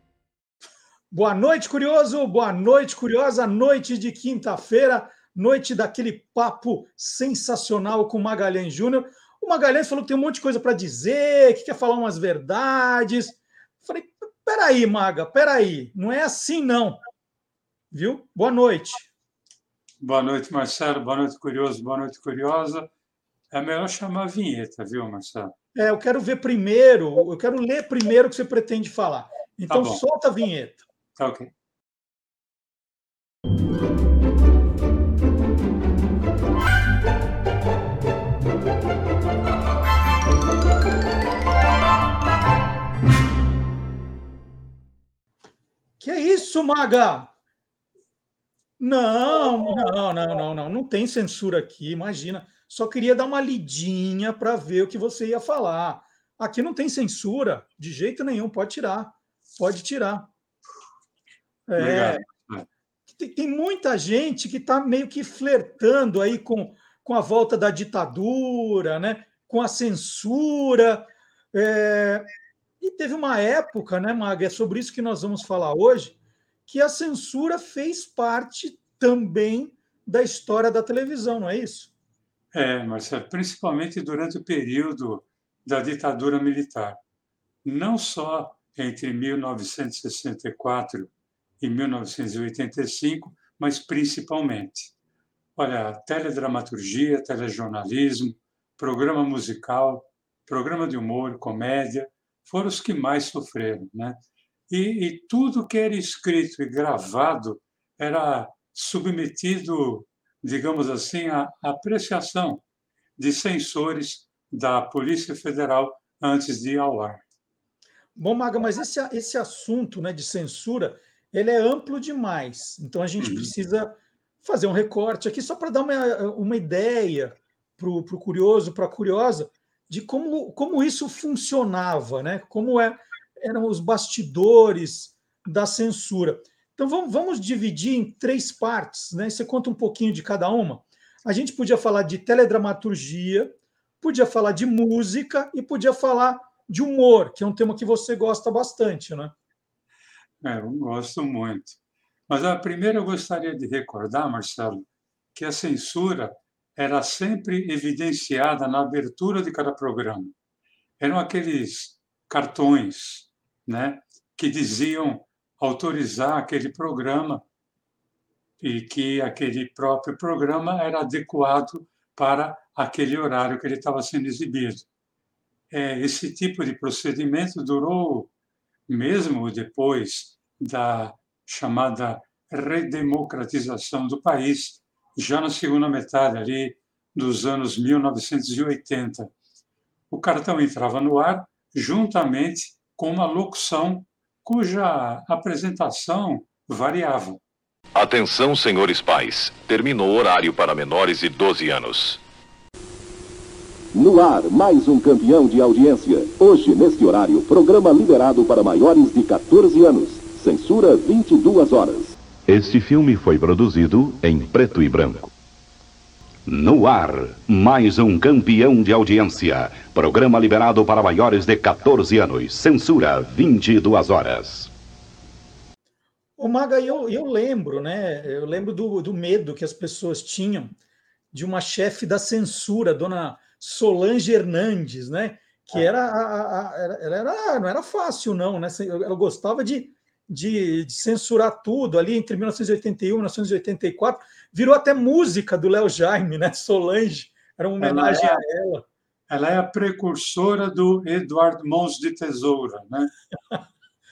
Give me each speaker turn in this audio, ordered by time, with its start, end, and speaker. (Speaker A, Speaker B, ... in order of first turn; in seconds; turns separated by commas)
Speaker A: 1.1-17.0, Speaker A: 17.9-19.1, Speaker B: 20.0-22.9, Speaker B: 23.5-25.5, Speaker A: 25.8-30.8, Speaker B: 29.7-30.0, Speaker B: 31.2-31.5, Speaker A: 46.0-47.3, Speaker A: 48.8-60.3, Speaker A: 61.7-62.2, Speaker B: 61.8-62.7, Speaker A: 63.2-72.3, Speaker A: 72.8-76.2, Speaker A: 76.7-81.9, Speaker B: 82.5-87.0, Speaker B: 87.7-94.9, Speaker B: 95.6-104.2, Speaker B: 104.7-112.6, Speaker B: 113.2-117.2, Speaker A: 118.2-149.3, Speaker B: 123.2-123.5, Speaker B: 150.4-151.8, Speaker B: 152.3-160.3, Speaker B: 161.0-167.4, Speaker B: 168.6-174.8, Speaker B: 175.7-178.3, Speaker B: 178.9-189.3, Speaker B: 190.1-197.4, Speaker C: 197.9-202.2, Speaker D: 203.9-212.2, Speaker E: 212.5-215.3, Speaker E: 216.5-224.7, Speaker A: 226.4-230.8, Speaker A: 231.3-248.9, Speaker B: 247.8-248.4, Speaker B: 249.3-253.1